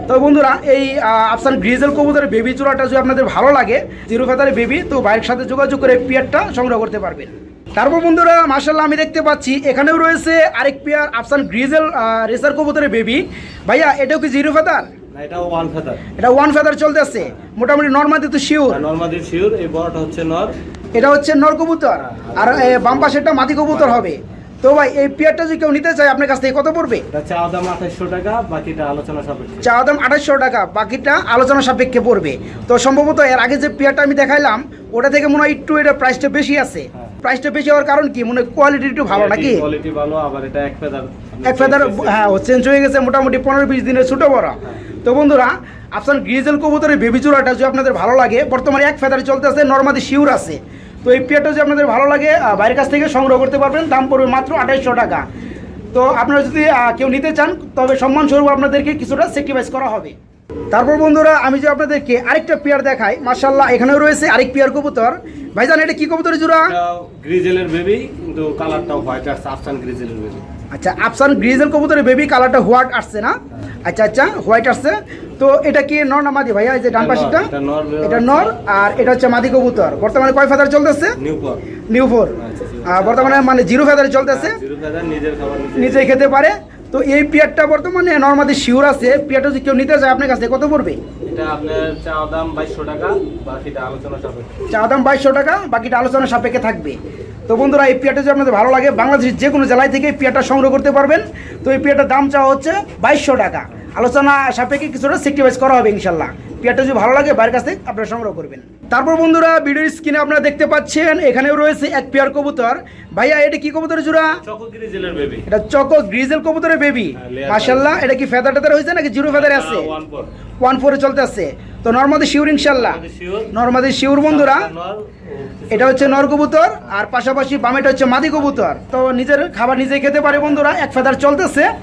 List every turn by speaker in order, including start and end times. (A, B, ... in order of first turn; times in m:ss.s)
0:00.1-0:14.9 A
0:15.1-0:16.0 B
0:16.2-0:18.8 A
0:18.7-0:20.6 B
0:21.0-0:27.1 A
0:22.0-0:24.1 B
0:27.1-0:29.7 B
0:29.6-0:39.6 A
0:39.1-0:42.2 B
0:41.4-0:55.3 A
0:55.9-1:00.2 A
1:00.7-1:06.7 A
1:06.6-1:10.4 B
1:10.7-1:17.5 A
1:16.9-1:19.6 B
1:18.0-1:21.2 A
1:21.2-1:21.6 B
1:21.9-1:24.6 A
1:22.4-1:23.6 B
1:24.3-1:26.2 B
1:25.8-1:31.0 A
1:31.3-1:34.6 B
1:34.7-1:54.4 A
1:54.4-1:55.5 B
1:55.5-1:59.9 A
1:57.2-1:58.0 B
1:59.3-2:00.3 B
2:00.6-2:03.0 A
2:02.7-2:03.5 B
2:03.5-2:04.7 A
2:04.2-2:06.4 B
2:05.7-2:11.7 A
2:10.3-2:10.8 B